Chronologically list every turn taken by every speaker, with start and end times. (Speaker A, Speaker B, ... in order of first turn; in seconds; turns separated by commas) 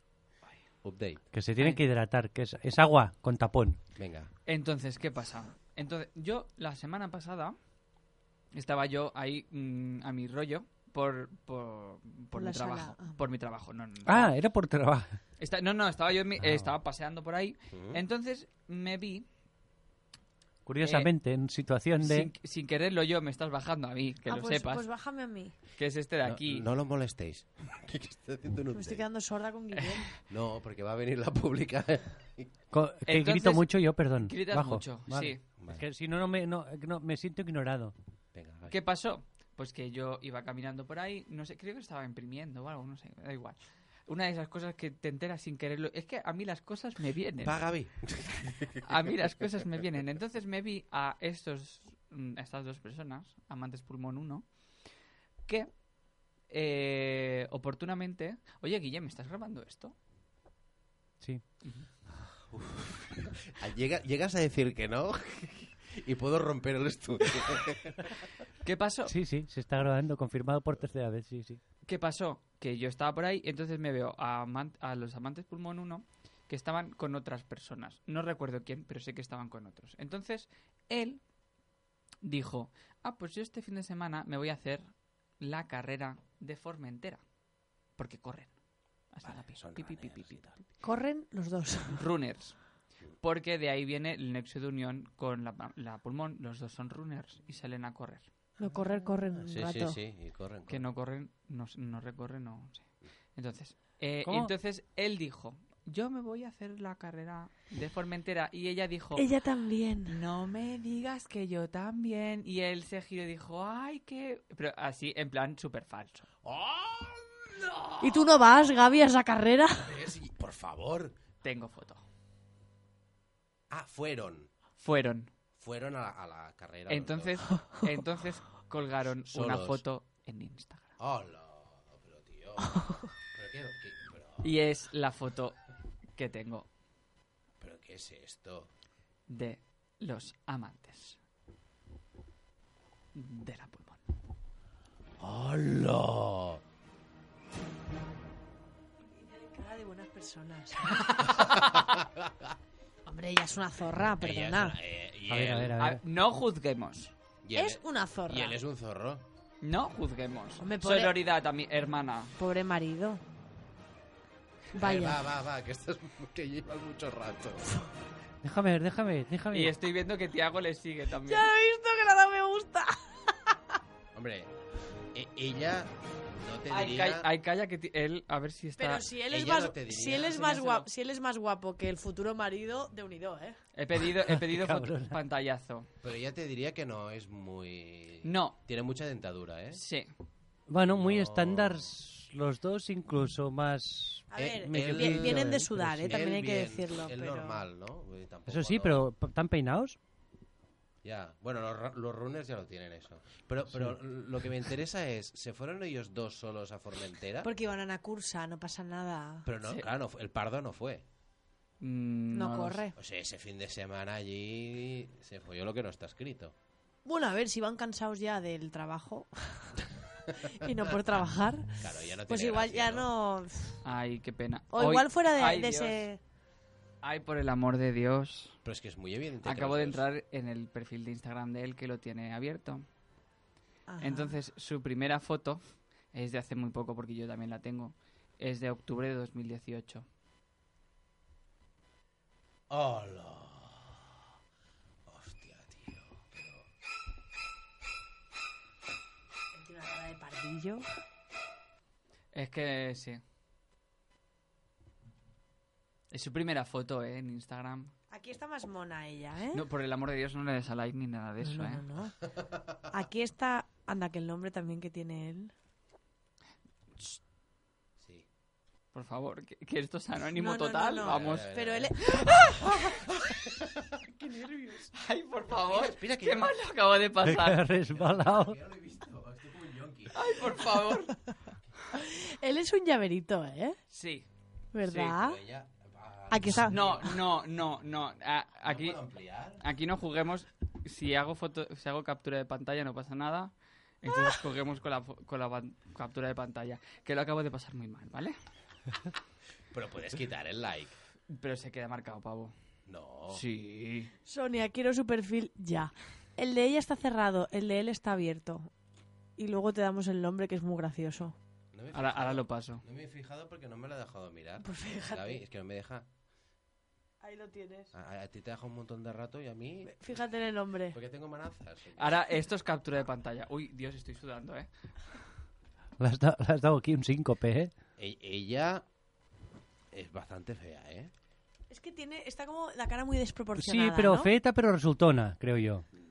Speaker A: 0.8-1.2, Speaker B: 1.3-3.8, Speaker A: 4.0-4.3, Speaker C: 4.5-7.6, Speaker C: 8.5-14.3, Speaker D: 12.3-13.2, Speaker B: 14.1-15.2, Speaker C: 15.4-19.3, Speaker B: 16.4-16.7, Speaker A: 17.7-18.0, Speaker B: 20.7-22.3, Speaker C: 20.8-21.1, Speaker C: 22.0-24.9, Speaker D: 24.3-25.6, Speaker C: 25.8-26.7, Speaker A: 26.2-29.0, Speaker D: 28.7-30.1, Speaker C: 29.7-30.0, Speaker A: 30.3-32.5, Speaker B: 32.7-37.9, Speaker C: 33.1-33.7, Speaker C: 34.2-35.4, Speaker A: 35.6-35.8, Speaker A: 38.3-38.8, Speaker C: 38.7-47.7, Speaker A: 47.4-48.8, Speaker C: 48.8-54.5, Speaker C: 56.5-60.0, Speaker A: 62.4-68.2, Speaker C: 68.6-69.2, Speaker B: 69.1-71.6, Speaker C: 71.8-81.2, Speaker C: 82.2-84.9, Speaker C: 85.4-87.2, Speaker C: 88.0-88.5, Speaker C: 89.1-90.6, Speaker A: 89.2-90.5, Speaker D: 90.8-92.0, Speaker C: 91.9-92.6, Speaker C: 93.2-98.2, Speaker D: 98.6-100.0, Speaker A: 99.4-100.9, Speaker C: 100.7-109.3, Speaker B: 104.2-104.5, Speaker D: 109.2-110.2, Speaker C: 110.1-116.3, Speaker A: 116.4-118.0, Speaker D: 118.0-120.0, Speaker A: 119.8-121.2, Speaker C: 121.4-122.0, Speaker A: 123.7-124.5, Speaker C: 124.8-125.3, Speaker A: 125.6-127.4, Speaker C: 126.9-130.9, Speaker A: 129.3-129.8, Speaker A: 131.0-134.5, Speaker C: 134.4-135.6, Speaker C: 136.2-136.7, Speaker A: 137.6-138.7, Speaker C: 139.3-141.2, Speaker C: 143.2-144.0, Speaker A: 145.2-146.6, Speaker D: 149.2-151.7, Speaker A: 151.4-152.5, Speaker D: 153.1-154.8, Speaker A: 154.2-155.8, Speaker B: 155.3-156.0, Speaker C: 155.8-157.1, Speaker A: 157.4-159.2, Speaker D: 157.6-158.6, Speaker C: 159.6-162.3, Speaker D: 160.6-161.2, Speaker D: 162.4-163.2, Speaker D: 164.8-165.2, Speaker A: 164.8-167.7, Speaker B: 168.4-169.8, Speaker C: 169.5-171.5, Speaker D: 171.3-173.6, Speaker A: 174.2-174.5, Speaker A: 175.1-177.3, Speaker C: 176.7-179.1, Speaker D: 178.8-183.6, Speaker A: 179.3-180.3, Speaker C: 180.2-180.9, Speaker C: 183.8-185.9, Speaker B: 184.0-185.2, Speaker A: 186.0-189.8, Speaker C: 188.2-188.6, Speaker C: 189.7-190.1, Speaker B: 190.7-196.2, Speaker A: 190.8-191.9, Speaker D: 194.3-197.6, Speaker A: 194.3-199.1, Speaker B: 198.5-200.0, Speaker A: 201.0-207.5, Speaker B: 203.7-204.0, Speaker D: 207.4-209.5, Speaker A: 209.4-211.1, Speaker C: 211.8-212.8, Speaker D: 212.3-213.0, Speaker A: 213.0-216.6, Speaker D: 217.1-219.8, Speaker D: 220.4-223.8, Speaker A: 221.8-223.1, Speaker C: 223.8-226.1, Speaker D: 224.7-226.2, Speaker C: 227.0-228.6, Speaker A: 228.7-230.0, Speaker C: 229.4-232.8, Speaker D: 233.9-234.4, Speaker C: 234.0-235.6, Speaker C: 236.1-240.1, Speaker A: 242.7-244.1, Speaker A: 245.1-246.7, Speaker D: 249.5-250.9, Speaker C: 252.3-253.2, Speaker C: 256.1-257.9, Speaker D: 258.1-259.6, Speaker C: 259.5-261.8, Speaker D: 261.4-262.2, Speaker D: 262.9-265.5, Speaker A: 268.0-268.3, Speaker C: 268.9-273.1, Speaker D: 270.4-272.7, Speaker A: 271.0-274.8, Speaker C: 274.9-277.7, Speaker A: 275.6-276.6, Speaker B: 277.2-278.6, Speaker A: 277.9-280.3, Speaker C: 280.1-281.2, Speaker D: 281.9-283.8, Speaker C: 283.9-284.3, Speaker D: 284.7-285.4, Speaker C: 284.8-285.2, Speaker A: 285.2-287.1, Speaker D: 286.3-287.1, Speaker C: 286.7-289.0, Speaker A: 288.7-289.6, Speaker C: 289.6-298.4, Speaker A: 299.7-301.0, Speaker C: 301.3-302.5, Speaker A: 302.9-303.4, Speaker C: 303.3-304.1, Speaker D: 304.3-308.7, Speaker D: 309.4-311.4, Speaker A: 311.7-316.1, Speaker C: 311.9-312.8, Speaker D: 314.6-315.4, Speaker D: 317.2-317.9, Speaker A: 317.9-320.0, Speaker D: 319.9-321.0, Speaker A: 320.9-322.2, Speaker C: 322.0-324.7, Speaker B: 326.0-327.7, Speaker A: 328.0-328.9, Speaker A: 329.9-331.1, Speaker D: 331.7-334.3, Speaker B: 333.6-335.9